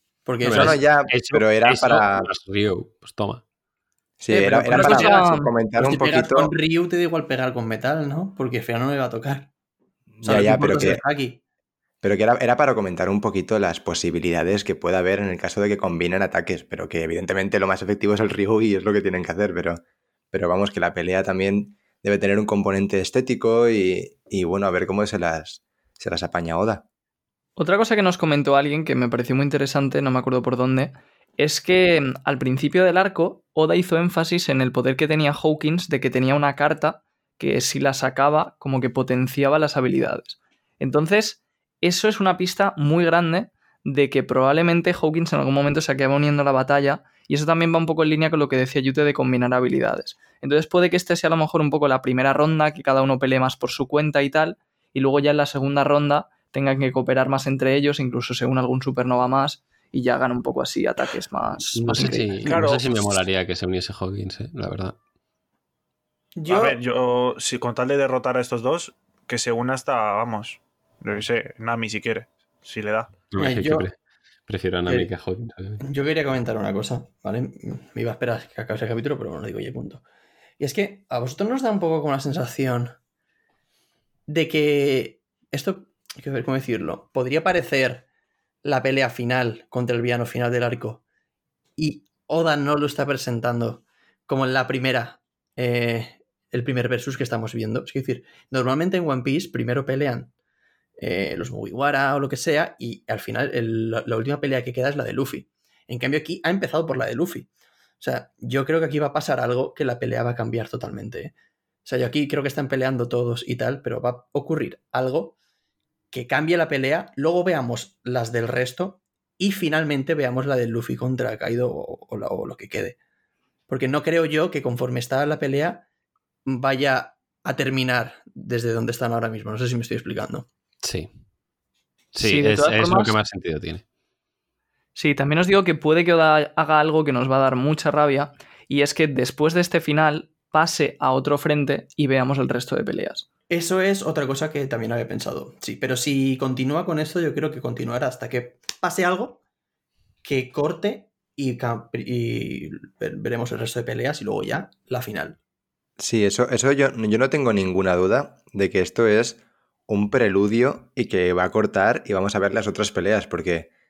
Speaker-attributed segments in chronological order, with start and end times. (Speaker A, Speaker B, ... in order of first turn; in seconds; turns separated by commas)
Speaker A: 0.3-0.8, Speaker B: 0.4-3.4, Speaker C: 0.5-2.3, Speaker C: 4.2-6.5, Speaker A: 4.3-5.2, Speaker D: 4.7-5.5, Speaker A: 5.8-9.5, Speaker C: 10.2-11.0, Speaker A: 10.2-11.4, Speaker C: 12.0-19.8, Speaker C: 20.3-26.9, Speaker D: 27.6-62.3, Speaker B: 61.8-65.0, Speaker A: 62.0-62.6, Speaker E: 62.4-63.2, Speaker A: 66.4-66.8, Speaker E: 66.5-73.1, Speaker B: 73.3-74.0, Speaker A: 73.4-73.9, Speaker B: 74.5-75.8, Speaker A: 75.8-80.0, Speaker A: 80.6-83.0, Speaker A: 84.3-88.1, Speaker A: 88.6-91.0, Speaker A: 91.8-100.3, Speaker A: 101.0-107.5, Speaker A: 108.0-111.3, Speaker A: 111.8-115.4, Speaker A: 116.1-123.0, Speaker A: 123.7-125.8, Speaker A: 126.5-130.5, Speaker B: 130.8-131.1, Speaker D: 132.1-133.2, Speaker B: 132.2-133.8, Speaker D: 134.9-143.3, Speaker A: 143.5-149.4, Speaker A: 150.2-155.4, Speaker C: 156.0-163.7